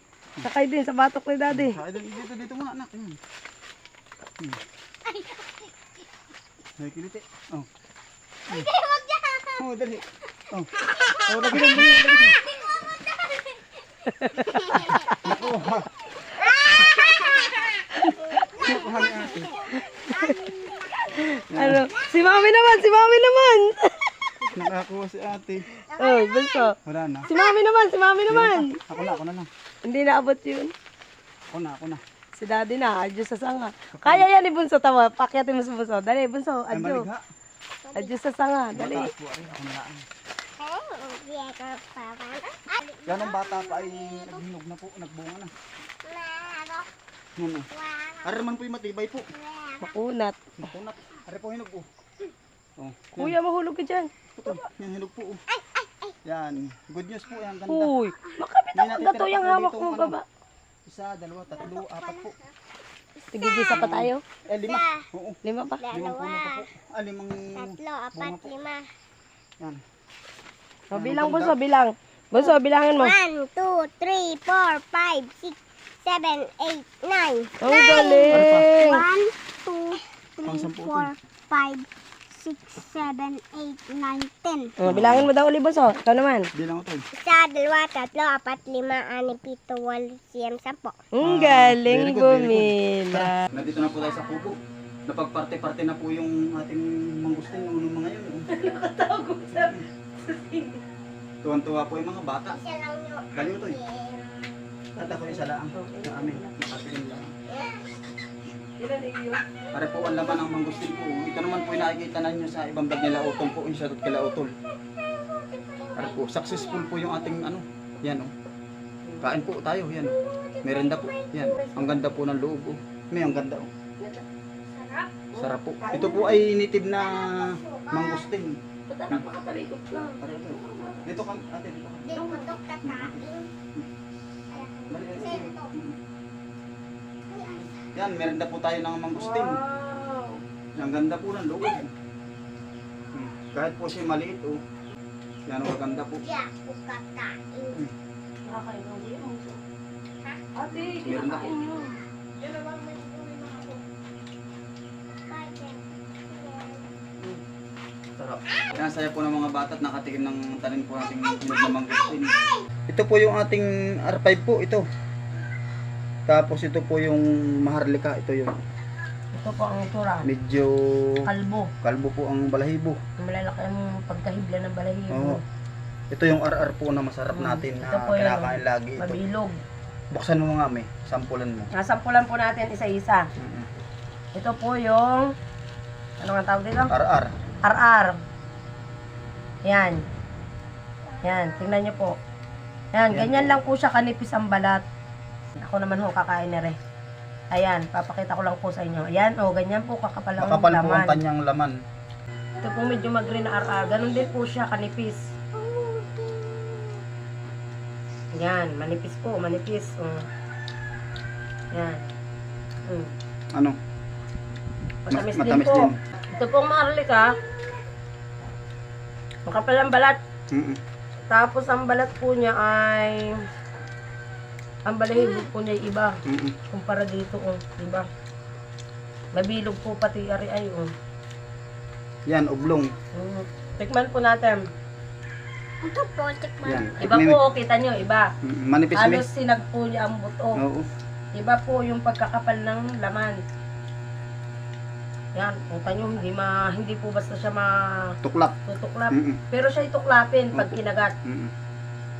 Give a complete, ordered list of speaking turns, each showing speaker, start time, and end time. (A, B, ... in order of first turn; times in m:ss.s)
0:00.4-0:01.8 A
0:01.5-0:03.2 B
0:05.1-0:05.5 C
0:06.8-0:07.7 B
0:08.5-0:09.6 C
0:09.6-0:10.7 B
0:11.0-0:11.7 C
0:11.2-0:12.4 B
0:12.4-0:13.4 C
0:14.0-0:15.4 A
0:14.5-0:15.4 C
0:15.2-0:16.0 B
0:16.4-0:21.1 C
0:18.0-0:18.3 A
0:18.5-0:19.5 B
0:19.4-0:20.4 A
0:20.9-0:23.9 A
0:21.5-0:21.8 B
0:21.9-0:22.4 C
0:24.6-0:25.6 B
0:25.9-0:26.7 C
0:26.0-0:26.7 A
0:26.8-0:27.3 B
0:27.3-0:27.5 C
0:27.3-0:28.8 A
0:28.3-0:29.5 B
0:29.8-0:30.7 A
0:31.5-0:32.0 B
0:32.3-0:37.0 A
0:33.9-0:34.3 B
0:36.7-0:37.2 B
0:37.8-0:38.2 C
0:37.9-0:39.1 A
0:38.7-0:40.0 B
0:40.6-0:44.4 C
0:43.1-0:45.5 B
0:46.0-0:46.9 C
0:47.4-0:47.7 B
0:47.7-0:48.5 C
0:48.2-0:49.3 B
0:49.3-0:49.9 C
0:49.8-0:50.4 A
0:50.6-0:51.9 B
0:52.8-0:53.4 B
0:53.2-0:54.6 A
0:54.3-0:55.4 B
0:55.5-0:56.1 C
0:56.2-0:58.0 B
0:57.7-1:00.2 A
0:58.7-1:00.2 B
1:00.8-1:02.3 B
1:01.5-1:02.4 C
1:03.2-1:03.9 C
1:03.3-1:04.2 A
1:03.7-1:05.4 B
1:04.6-1:05.1 C
1:05.4-1:05.8 A
1:05.8-1:06.6 C
1:05.9-1:08.5 B
1:07.5-1:08.9 C
1:10.9-1:13.1 A
1:10.9-1:11.6 B
1:12.4-1:24.7 C
1:17.6-1:19.0 A
1:18.3-1:18.7 B
1:20.4-1:21.1 B
1:24.8-1:26.5 A
1:24.8-1:25.3 B
1:26.5-1:27.0 B
1:27.2-1:31.1 C
1:31.1-1:33.4 A
1:31.2-1:38.5 B
1:33.8-1:34.5 C
1:38.5-1:40.8 A
1:39.5-1:39.8 B
1:41.4-1:42.6 B
1:42.5-1:44.4 C
1:43.3-1:43.8 B
1:45.0-1:46.6 A
1:45.0-1:47.3 B
1:47.5-1:47.9 C
1:48.8-1:49.4 A
1:49.7-1:54.5 B
1:49.8-1:51.9 C
1:52.9-1:57.4 C
1:56.0-1:58.3 B
1:59.0-1:59.4 A
1:59.2-2:03.7 B
2:00.0-2:01.5 C
2:01.2-2:02.1 A
2:04.8-2:06.2 A
2:05.4-2:08.6 B
2:05.8-2:08.3 C
2:08.9-2:11.1 A
2:10.2-2:12.2 B
2:12.0-2:13.5 C
2:12.1-2:12.5 A
2:12.8-2:13.9 B
2:14.5-2:15.7 C
2:14.9-2:16.0 B
2:17.3-2:17.8 C
2:17.9-2:19.6 B
2:19.1-2:20.4 A
2:20.8-2:21.9 B
2:23.1-2:24.6 B
2:25.5-2:26.2 B
2:26.2-2:27.8 C
2:28.4-2:29.6 A
2:30.6-2:32.0 A
2:31.0-2:31.5 B
2:32.4-2:33.8 C
2:35.3-2:36.8 C
2:38.2-2:42.3 B
2:41.4-2:41.8 C
2:42.9-2:44.8 B
2:46.3-2:48.5 B
2:49.4-2:50.3 A
2:50.2-2:51.2 B
2:51.3-2:51.7 A
2:51.8-2:53.0 B
2:53.2-2:55.4 A
2:55.1-2:55.4 B
2:56.1-2:59.2 B
2:57.3-2:59.6 A
3:00.1-3:01.7 B
3:01.7-3:03.2 A
3:03.4-3:03.7 B
3:04.4-3:05.3 A
3:06.2-3:06.9 A
3:06.9-3:07.3 B
3:07.6-3:08.1 A
3:09.6-3:10.0 A
3:11.2-3:12.2 A
3:12.9-3:14.8 A
3:13.1-3:13.6 B
3:15.6-3:16.8 A
3:17.5-3:21.2 A
3:20.4-3:21.8 B
3:22.6-3:25.2 A
3:23.0-3:24.2 C
3:25.6-3:26.4 C
3:28.3-3:30.2 A
3:31.7-3:32.0 A
3:32.9-3:33.1 A
3:35.1-3:37.4 A
3:35.1-3:36.0 B
3:39.4-3:40.2 A
3:40.5-3:40.8 B
3:41.3-3:43.4 A
3:44.8-3:46.1 A
3:46.2-3:46.6 B
3:46.7-3:48.1 A
3:49.4-3:50.9 A
3:52.2-3:52.9 B
3:53.1-3:54.6 A
3:55.8-3:57.0 C
3:56.6-3:57.4 B
3:57.0-3:58.3 A
3:58.4-3:59.2 B
3:58.9-4:00.6 A
4:00.6-4:00.9 B
4:01.3-4:03.4 A
4:05.3-4:07.7 A
4:08.2-4:08.5 B
4:08.7-4:11.1 A
4:09.1-4:09.4 B
4:10.5-4:11.5 B